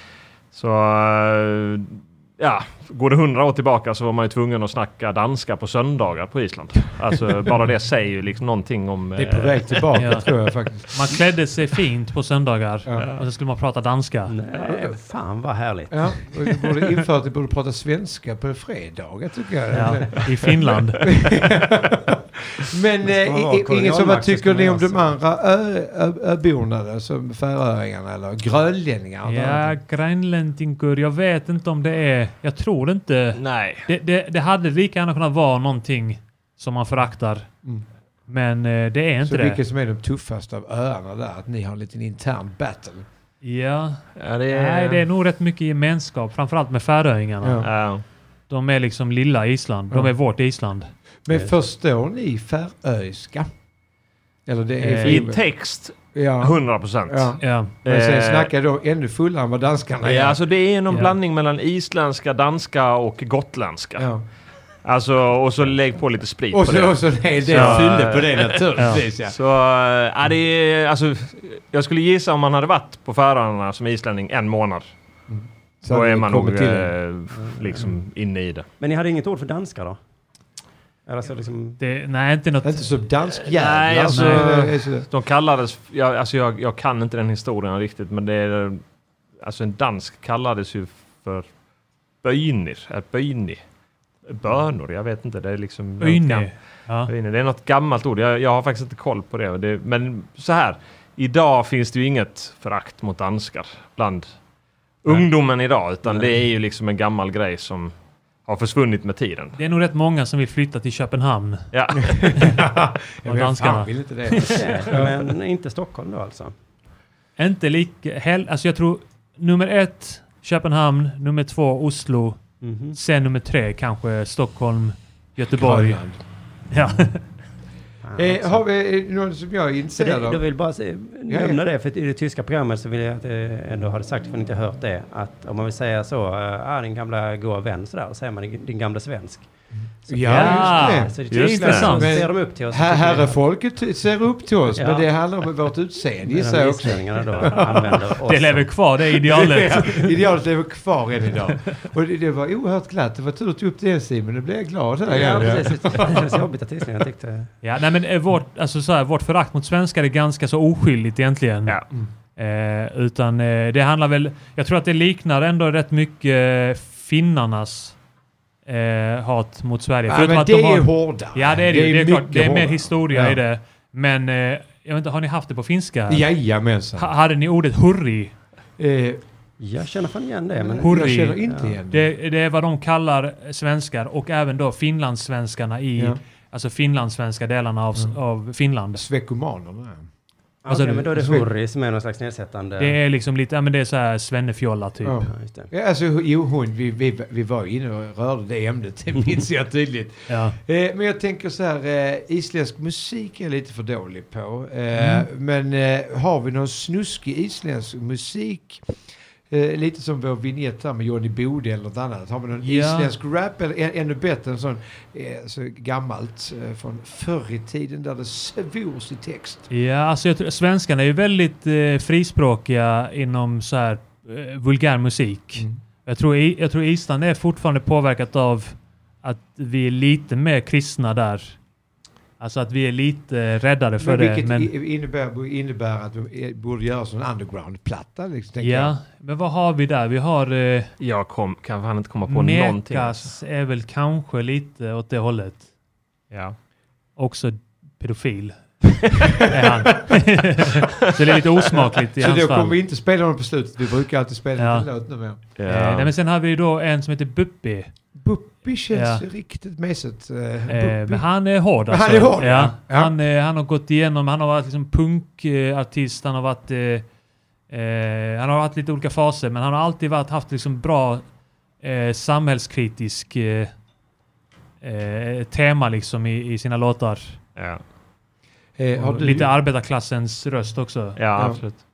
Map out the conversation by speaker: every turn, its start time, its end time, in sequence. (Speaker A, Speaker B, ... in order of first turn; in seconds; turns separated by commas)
Speaker A: 0.5-9.9, Speaker B: 9.2-11.2, Speaker C: 9.9-14.3, Speaker D: 14.3-16.6, Speaker B: 14.6-14.9, Speaker B: 15.9-20.5, Speaker C: 19.7-21.1, Speaker D: 19.8-20.1, Speaker B: 21.0-29.7, Speaker D: 23.0-25.1, Speaker C: 29.2-37.5, Speaker A: 33.4-33.9, Speaker C: 38.3-39.6, Speaker B: 39.2-43.0, Speaker C: 43.4-47.7, Speaker A: 44.1-45.0, Speaker B: 47.4-47.7, Speaker A: 47.6-48.0, Speaker C: 48.5-50.9, Speaker B: 51.2-53.5, Speaker B: 54.5-55.4, Speaker C: 54.8-55.3, Speaker A: 55.0-58.5, Speaker B: 56.1-56.5, Speaker B: 57.1-60.4, Speaker C: 57.4-57.7, Speaker A: 60.0-64.1, Speaker C: 60.9-61.1, Speaker B: 64.0-64.2, Speaker A: 64.8-68.7, Speaker B: 66.5-69.3, Speaker C: 67.5-67.9, Speaker C: 68.8-69.0, Speaker A: 69.2-74.9, Speaker B: 75.3-76.9, Speaker A: 75.9-78.7, Speaker D: 77.4-77.9, Speaker D: 78.8-80.0, Speaker D: 81.0-81.8, Speaker C: 81.8-83.0, Speaker B: 82.6-85.1, Speaker A: 83.3-88.8, Speaker C: 84.1-84.7, Speaker A: 89.4-91.5, Speaker A: 92.2-93.6, Speaker A: 94.2-104.2, Speaker C: 96.0-97.1, Speaker A: 105.0-107.9, Speaker A: 108.5-109.6, Speaker C: 109.5-111.7, Speaker A: 111.7-112.2, Speaker B: 112.0-115.1, Speaker C: 112.3-112.6, Speaker C: 113.2-114.8, Speaker D: 114.5-116.5, Speaker C: 117.4-122.4, Speaker D: 122.6-123.0, Speaker C: 122.9-126.0, Speaker B: 125.5-126.2, Speaker C: 126.7-127.2, Speaker D: 128.0-128.6, Speaker B: 128.1-130.4, Speaker D: 129.9-139.5, Speaker B: 131.3-131.6, Speaker B: 139.9-141.2, Speaker D: 140.1-143.4, Speaker C: 140.2-142.2, Speaker A: 141.3-142.0, Speaker B: 141.9-148.1, Speaker D: 144.7-145.1, Speaker D: 146.2-148.7, Speaker C: 148.2-150.1, Speaker B: 149.2-156.4, Speaker D: 155.0-157.5, Speaker C: 157.6-161.8, Speaker C: 162.4-168.0, Speaker C: 168.7-176.2, Speaker B: 170.1-173.4, Speaker B: 176.1-177.1, Speaker C: 177.0-178.3, Speaker B: 178.8-179.2, Speaker D: 179.6-181.8, Speaker B: 180.6-182.1, Speaker C: 180.8-189.0, Speaker B: 188.9-190.1, Speaker D: 190.6-193.0, Speaker C: 190.7-191.1, Speaker B: 191.1-191.5, Speaker C: 192.8-195.2, Speaker B: 195.0-219.7, Speaker D: 195.3-195.7, Speaker C: 200.3-200.6, Speaker C: 204.9-205.3, Speaker C: 212.6-213.1, Speaker C: 219.7-231.6, Speaker C: 232.4-234.7, Speaker B: 234.0-238.9, Speaker C: 238.6-240.9, Speaker A: 241.0-243.3, Speaker C: 242.3-245.7, Speaker A: 246.3-246.6, Speaker C: 247.2-252.8, Speaker B: 249.2-250.1, Speaker B: 252.2-255.4, Speaker C: 254.6-254.9, Speaker A: 255.6-256.1, Speaker C: 255.6-257.9, Speaker B: 258.1-261.3, Speaker C: 258.9-259.2, Speaker C: 260.7-267.1, Speaker B: 261.9-263.1, Speaker C: 267.7-271.2, Speaker C: 271.8-273.7, Speaker C: 274.8-277.4, Speaker A: 277.6-277.8, Speaker B: 278.8-279.5, Speaker C: 279.0-281.2, Speaker A: 281.1-281.8, Speaker B: 281.4-281.6